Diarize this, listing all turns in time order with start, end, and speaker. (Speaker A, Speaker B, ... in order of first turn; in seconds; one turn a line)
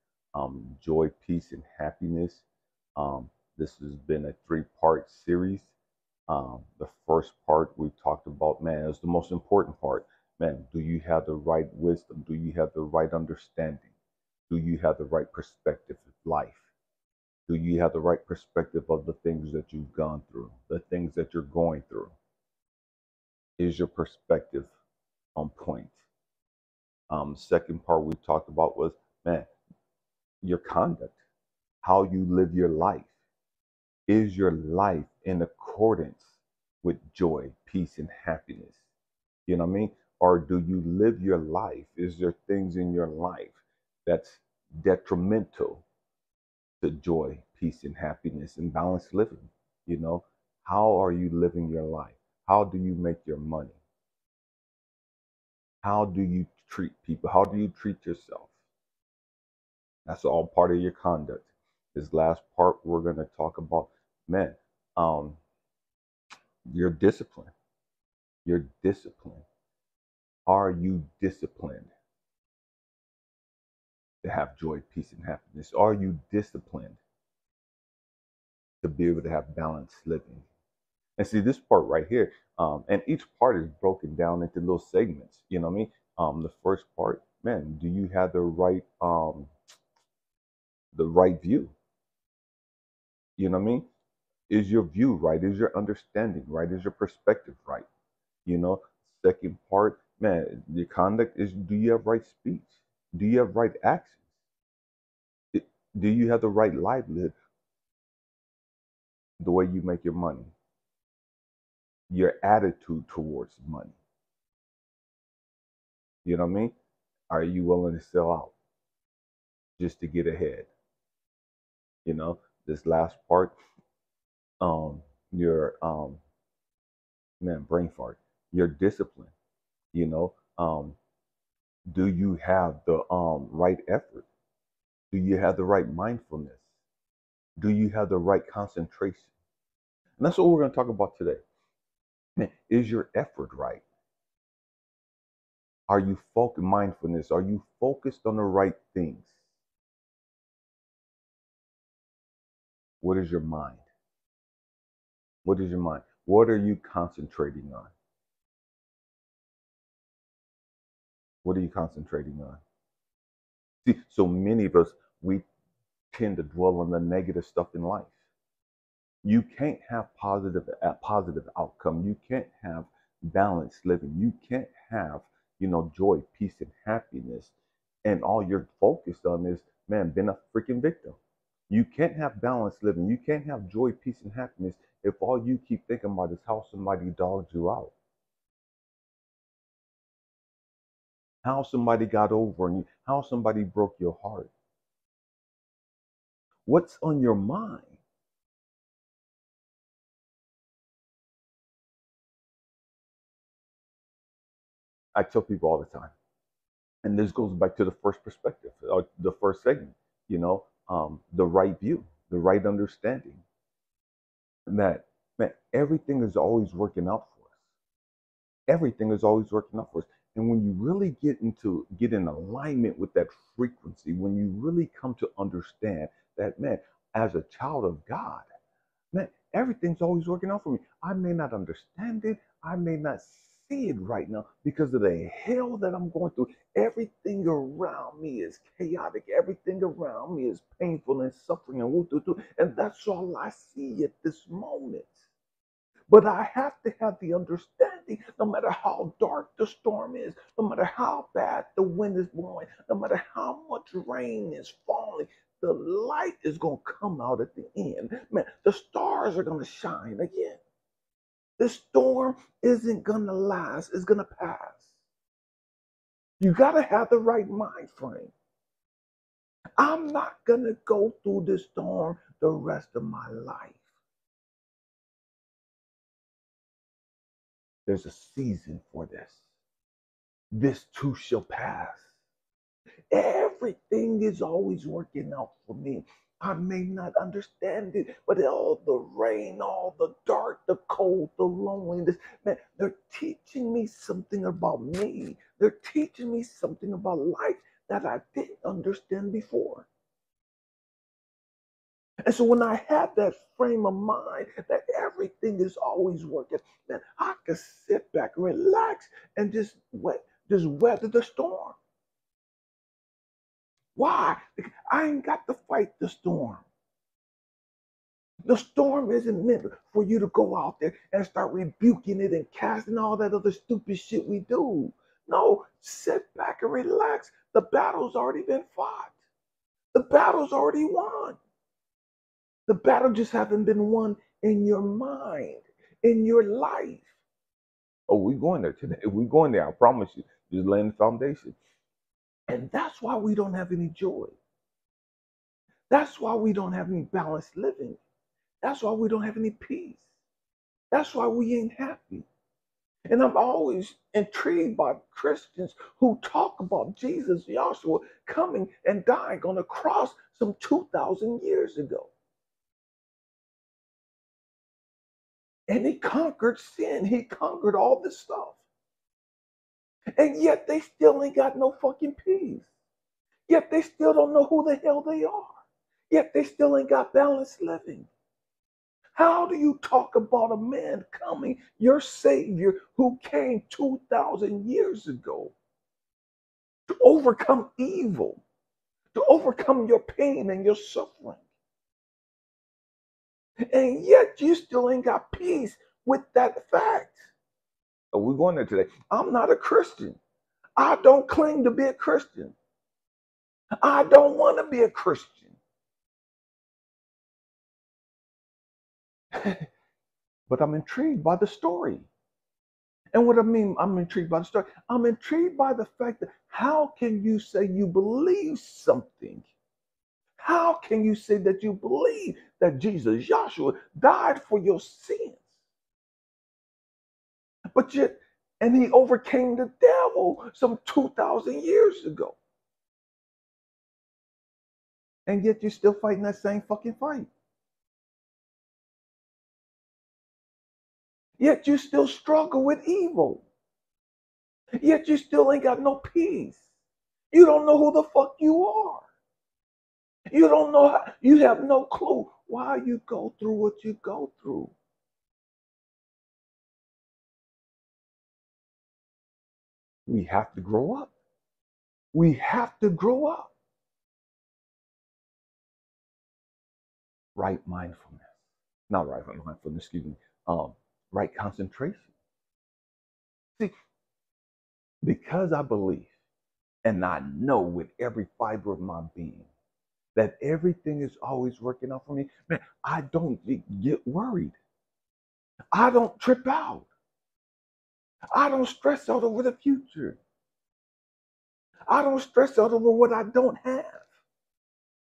Speaker A: 0.3-2.4
Speaker A: 3.0-5.7
Speaker A: 6.3-13.9
Speaker A: 14.5-16.7
Speaker A: 17.5-22.2
Speaker A: 23.6-24.7
Speaker A: 25.4-26.0
Speaker A: 27.1-29.5
Speaker A: 30.4-31.2
Speaker A: 31.8-33.1
Speaker A: 34.1-38.8
Speaker A: 39.5-45.9
Speaker A: 46.8-53.8
Speaker A: 55.8-58.5
Speaker A: 60.1-65.4
Speaker A: 66.7-67.5
Speaker A: 68.5-69.5
Speaker A: 70.5-71.9
Speaker A: 74.2-77.0
Speaker A: 78.8-80.5
Speaker A: 81.2-89.5
Speaker A: 90.9-91.7
Speaker A: 93.4-93.9
Speaker A: 94.5-97.9
Speaker A: 98.5-104.2
Speaker A: 105.5-107.4
Speaker A: 109.4-110.5
Speaker A: 112.1-114.0
Speaker A: 116.2-116.7
Speaker A: 117.3-118.5
Speaker A: 119.8-120.7
Speaker A: 122.0-123.5
Speaker A: 124.6-126.2
Speaker A: 127.4-129.3
Speaker A: 129.9-131.0
Speaker A: 131.9-134.3
Speaker A: 135.1-136.6
Speaker A: 137.6-139.3
Speaker A: 140.2-141.4
Speaker A: 142.4-143.8
Speaker A: 145.9-149.3
Speaker A: 153.0-153.9
Speaker A: 155.4-157.9
Speaker A: 161.4-162.6
Speaker A: 163.8-165.4
Speaker A: 166.1-168.2
Speaker A: 169.2-177.5
Speaker A: 178.0-181.2
Speaker A: 181.7-187.9
Speaker A: 191.4-194.5
Speaker A: 196.7-198.0
Speaker A: 205.2-206.2
Speaker A: 207.0-213.4
Speaker A: 214.7-217.5
Speaker A: 218.7-228.5
Speaker A: 229.1-245.2
Speaker A: 246.1-260.6
Speaker A: 261.6-264.9
Speaker A: 266.4-268.3
Speaker A: 269.8-273.8
Speaker A: 277.9-279.4
Speaker A: 280.5-282.1
Speaker A: 283.1-299.9
Speaker A: 302.2-311.8
Speaker A: 314.0-316.7
Speaker A: 318.4-329.2
Speaker A: 329.9-331.4
Speaker A: 332.7-337.1
Speaker A: 338.1-341.6
Speaker A: 342.5-344.4
Speaker A: 345.9-348.0
Speaker A: 348.6-350.1
Speaker A: 350.9-352.3
Speaker A: 353.1-362.1
Speaker A: 365.7-368.6
Speaker A: 370.2-372.7
Speaker A: 373.5-375.6
Speaker A: 376.1-378.1
Speaker A: 379.2-385.6
Speaker A: 386.9-388.4
Speaker A: 389.1-391.4
Speaker A: 393.7-397.3
Speaker A: 398.1-400.2
Speaker A: 400.8-402.6
Speaker A: 403.8-405.6
Speaker A: 409.3-409.7
Speaker A: 410.5-412.1
Speaker A: 413.1-419.5
Speaker A: 420.4-425.5
Speaker A: 427.7-432.4
Speaker A: 435.3-437.3
Speaker A: 441.4-443.5
Speaker A: 444.8-446.7
Speaker A: 447.3-449.1
Speaker A: 450.3-454.7
Speaker A: 460.1-461.1
Speaker A: 462.1-463.5
Speaker A: 467.4-468.4
Speaker A: 468.9-472.1
Speaker A: 475.0-476.1
Speaker A: 476.8-479.5
Speaker A: 480.1-484.6
Speaker A: 485.7-486.9
Speaker A: 488.3-490.2
Speaker A: 491.9-494.1